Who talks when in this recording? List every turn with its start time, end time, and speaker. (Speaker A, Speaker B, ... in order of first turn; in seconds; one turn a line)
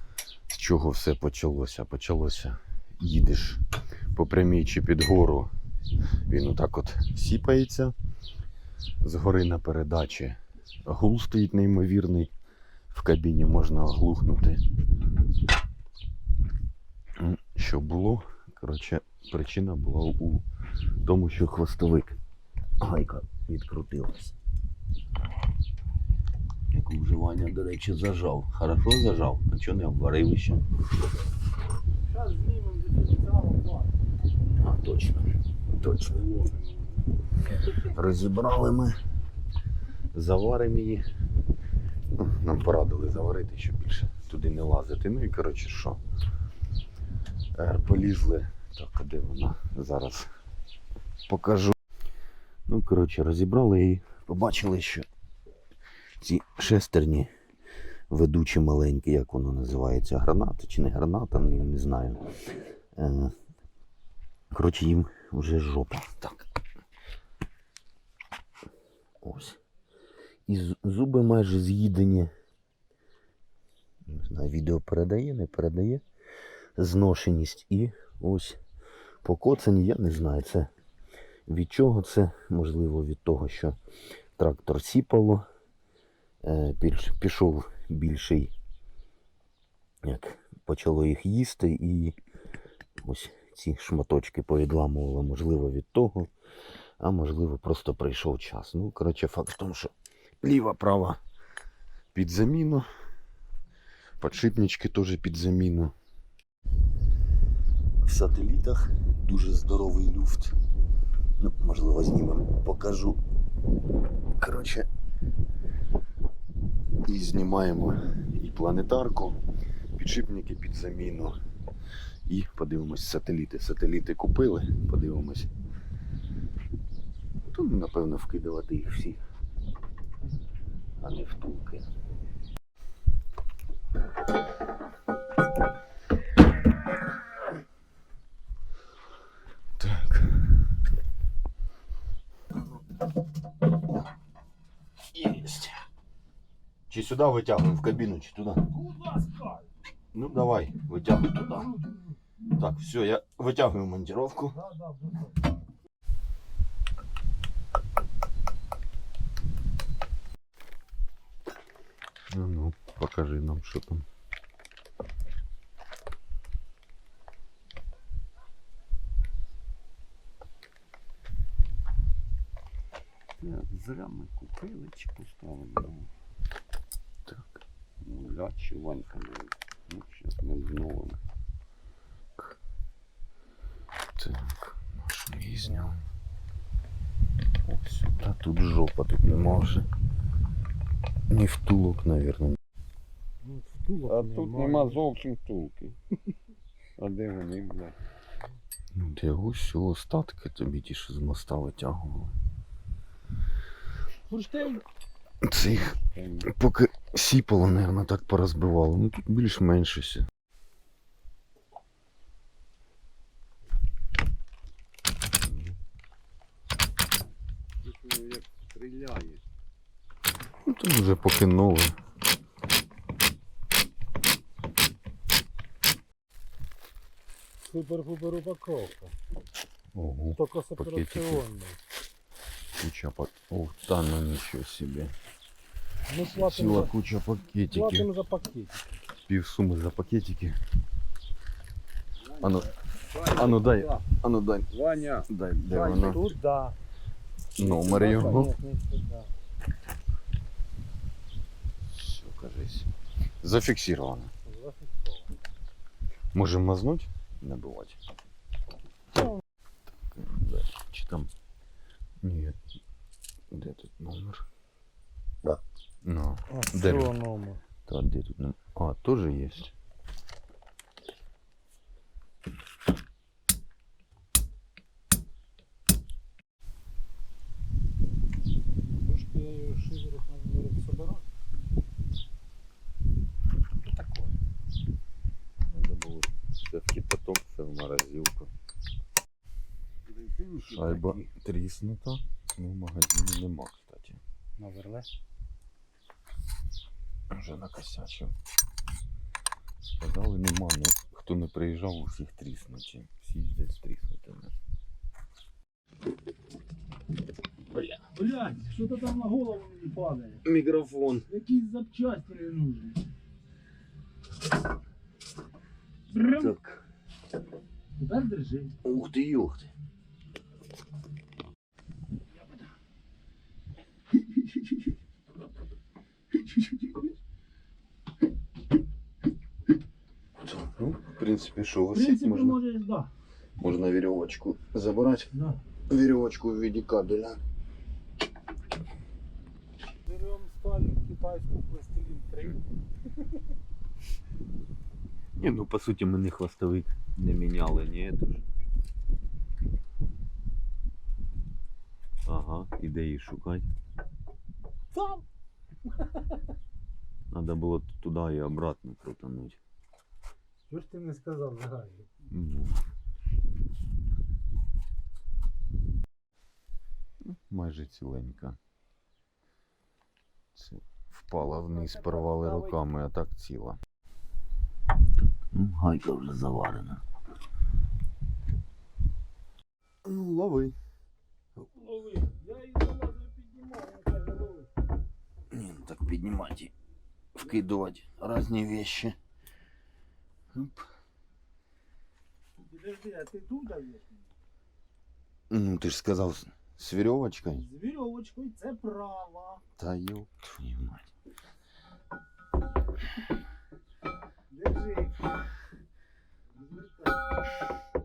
Speaker A: 0.5-3.6
Speaker A: 4.1-5.5
Speaker A: 6.3-7.9
Speaker A: 9.0-12.3
Speaker A: 12.9-14.6
Speaker A: 17.2-20.4
Speaker A: 21.0-22.2
Speaker A: 22.8-24.4
Speaker A: 26.7-30.6
Speaker B: 32.1-33.9
Speaker A: 34.6-36.3
Speaker A: 37.7-39.0
Speaker A: 40.1-41.0
Speaker A: 42.2-46.0
Speaker A: 47.6-50.3
Speaker A: 51.3-51.8
Speaker A: 52.7-55.1
Speaker A: 56.2-57.3
Speaker A: 58.1-62.2
Speaker A: 63.0-63.3
Speaker A: 64.5-66.5
Speaker A: 69.2-69.6
Speaker A: 70.5-72.3
Speaker A: 74.1-76.0
Speaker A: 76.8-78.6
Speaker A: 79.2-80.7
Speaker A: 81.5-83.8
Speaker A: 84.4-85.5
Speaker A: 86.4-88.5
Speaker A: 90.0-92.2
Speaker A: 93.0-96.3
Speaker A: 97.0-101.2
Speaker A: 102.1-102.9
Speaker A: 104.2-105.9
Speaker A: 108.0-110.6
Speaker A: 111.4-113.2
Speaker A: 114.4-114.9
Speaker A: 117.0-119.4
Speaker A: 120.0-121.4
Speaker A: 122.3-125.5
Speaker A: 127.4-129.2
Speaker A: 131.0-131.9
Speaker A: 139.8-140.5
Speaker A: 145.1-145.8
Speaker A: 146.9-148.7
Speaker B: 148.8-149.7
Speaker A: 150.1-151.7
Speaker A: 152.5-154.7
Speaker B: 154.7-155.3
Speaker A: 162.3-164.1
Speaker C: 173.4-176.1
Speaker A: 177.3-177.6
Speaker C: 178.0-181.2
Speaker A: 184.2-186.0
Speaker A: 187.7-189.9
Speaker A: 191.3-192.6
Speaker B: 193.4-195.0
Speaker C: 194.1-196.0
Speaker C: 197.0-198.0
Speaker A: 198.9-202.3
Speaker B: 204.3-204.8
Speaker A: 205.4-210.2
Speaker C: 206.0-206.5
Speaker A: 215.4-215.8
Speaker C: 217.8-219.4
Speaker A: 220.6-221.9
Speaker B: 227.6-229.1
Speaker A: 229.9-231.4
Speaker B: 230.4-231.8
Speaker A: 232.7-235.1
Speaker B: 236.1-236.9
Speaker A: 236.2-238.1
Speaker B: 237.7-238.9
Speaker A: 239.3-240.6
Speaker C: 242.3-244.0
Speaker A: 242.4-242.7
Speaker A: 243.3-244.7
Speaker C: 244.7-245.3
Speaker A: 245.3-246.3
Speaker B: 245.7-246.8
Speaker A: 247.6-248.6
Speaker C: 247.6-248.5
Speaker B: 247.9-249.3
Speaker A: 251.9-252.9
Speaker A: 253.4-254.3
Speaker B: 254.5-255.2
Speaker A: 256.3-258.0
Speaker A: 259.9-261.3
Speaker A: 262.2-262.6
Speaker A: 263.5-264.4
Speaker A: 265.4-267.2
Speaker B: 266.5-267.6
Speaker A: 267.9-269.7
Speaker B: 279.1-281.3
Speaker B: 283.9-284.3
Speaker A: 285.7-288.5
Speaker C: 290.1-291.3
Speaker A: 290.6-294.2
Speaker B: 294.6-295.1
Speaker A: 297.3-298.3
Speaker A: 300.0-304.5
Speaker A: 307.7-308.0
Speaker B: 308.1-310.4
Speaker A: 310.4-311.3
Speaker B: 311.3-313.0
Speaker B: 316.1-316.5
Speaker A: 316.3-316.8
Speaker B: 318.0-318.8
Speaker A: 318.8-319.7
Speaker A: 330.4-332.6
Speaker B: 331.9-333.1
Speaker A: 333.6-335.3
Speaker A: 335.9-337.4
Speaker B: 340.1-342.6
Speaker A: 345.4-348.4
Speaker A: 352.3-353.7
Speaker B: 355.0-355.2
Speaker A: 357.3-359.6
Speaker B: 360.7-362.1
Speaker A: 362.3-362.8
Speaker A: 367.2-368.6
Speaker A: 370.6-373.8
Speaker B: 371.4-372.8
Speaker A: 375.4-377.0
Speaker A: 380.1-380.8
Speaker B: 381.7-384.7
Speaker A: 385.5-386.7
Speaker A: 387.4-389.2
Speaker A: 390.5-390.9
Speaker B: 392.6-394.3
Speaker A: 395.5-397.7
Speaker B: 397.5-399.6
Speaker A: 399.8-401.1
Speaker B: 404.5-405.2
Speaker B: 406.5-407.4